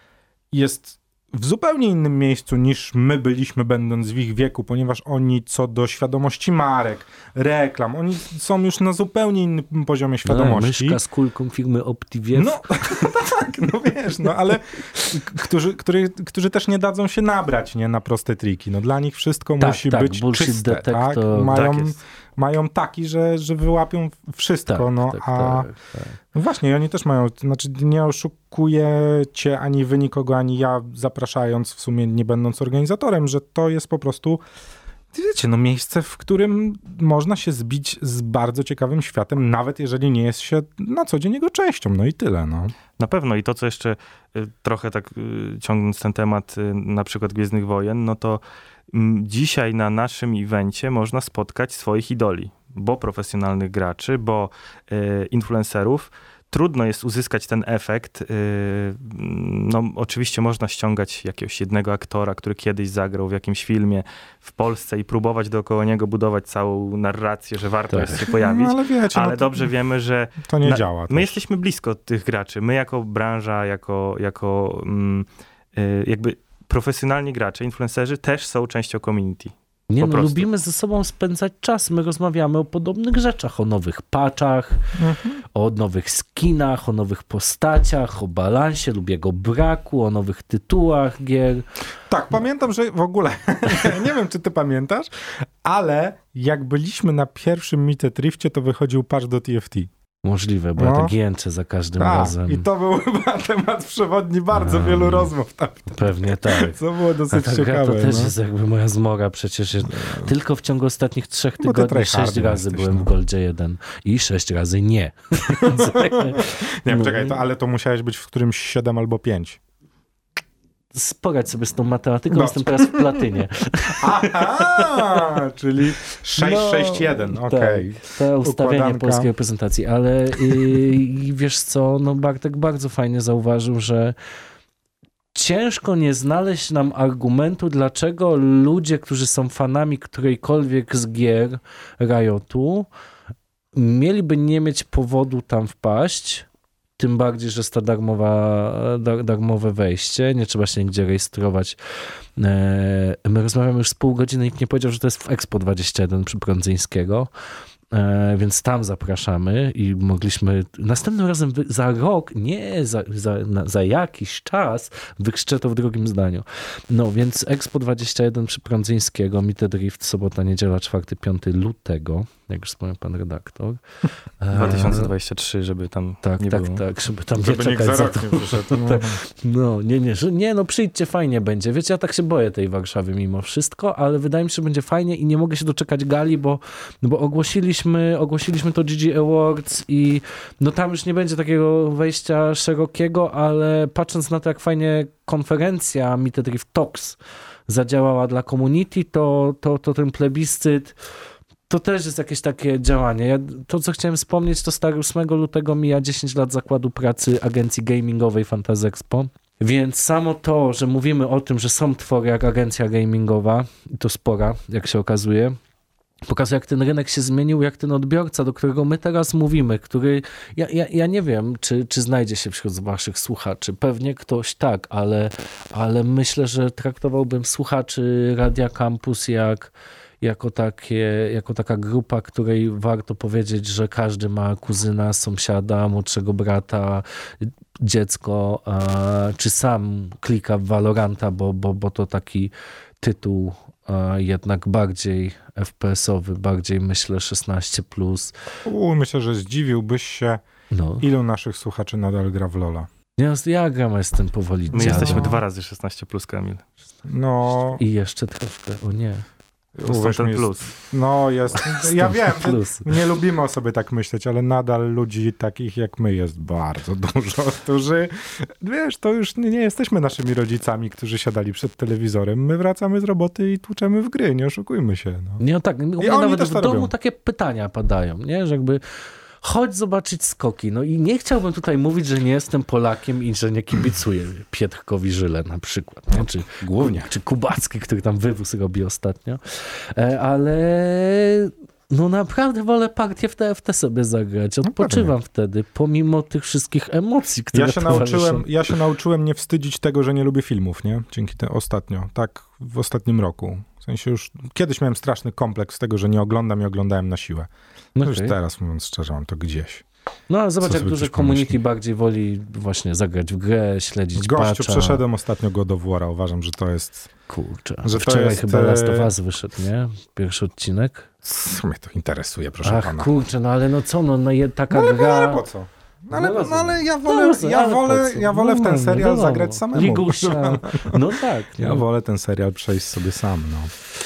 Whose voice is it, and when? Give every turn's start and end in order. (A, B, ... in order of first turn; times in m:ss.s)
0:00.5-0:11.0 A
0:10.2-0:13.1 B
0:12.3-0:25.7 A
0:19.6-0:21.6 B
0:21.5-0:22.0 C
0:24.7-0:26.2 B
0:26.3-0:34.4 A
0:35.1-0:42.7 A
0:43.0-1:20.5 C
1:07.9-1:08.3 B
1:08.3-1:09.6 A
1:10.4-1:11.4 A
1:19.9-1:24.8 B
1:25.0-1:25.4 A
1:25.5-1:31.6 B
1:32.1-1:39.9 A
1:40.2-1:42.6 B
1:40.8-1:41.1 A
1:42.0-1:48.3 A
1:44.5-1:45.3 B
1:45.9-1:46.8 B
1:47.3-1:57.4 B
1:49.9-1:50.3 A
1:51.6-1:53.1 A
1:55.5-1:59.6 A
2:00.9-2:05.2 B
2:02.3-2:03.2 A
2:04.0-2:09.3 A
2:06.4-2:14.1 B
2:15.3-2:22.9 B
2:23.7-2:26.5 B
2:27.0-2:31.8 B
2:32.4-2:37.3 B
2:37.9-2:53.8 B
2:54.4-2:55.1 B
2:54.5-2:56.8 C
2:56.2-3:21.0 B
2:57.4-2:59.2 A
3:21.7-3:35.6 B
3:36.2-4:08.3 B
4:08.6-4:10.4 A
4:10.7-4:11.0 B
4:11.0-4:12.9 A
4:13.2-4:15.4 B
4:14.7-4:15.4 A
4:14.8-4:16.6 C
4:17.1-4:17.8 A
4:17.8-4:19.2 B
4:19.8-4:35.4 A
4:19.9-4:20.7 C
4:21.7-4:22.9 B
4:35.4-4:38.8 B
4:36.0-4:36.9 A
4:39.4-4:58.4 B
4:46.1-4:47.1 A
4:54.6-4:55.1 A
4:57.5-5:07.5 A
5:08.0-5:08.4 B
5:08.0-5:09.8 A
5:10.3-5:15.0 B
5:10.6-5:11.6 A
5:14.2-5:17.1 A
5:17.3-5:21.1 B
5:17.8-5:19.1 A
5:21.2-5:23.1 A
5:22.6-5:25.4 B
5:24.7-5:31.1 A
5:26.1-5:31.8 B
5:31.6-5:33.7 A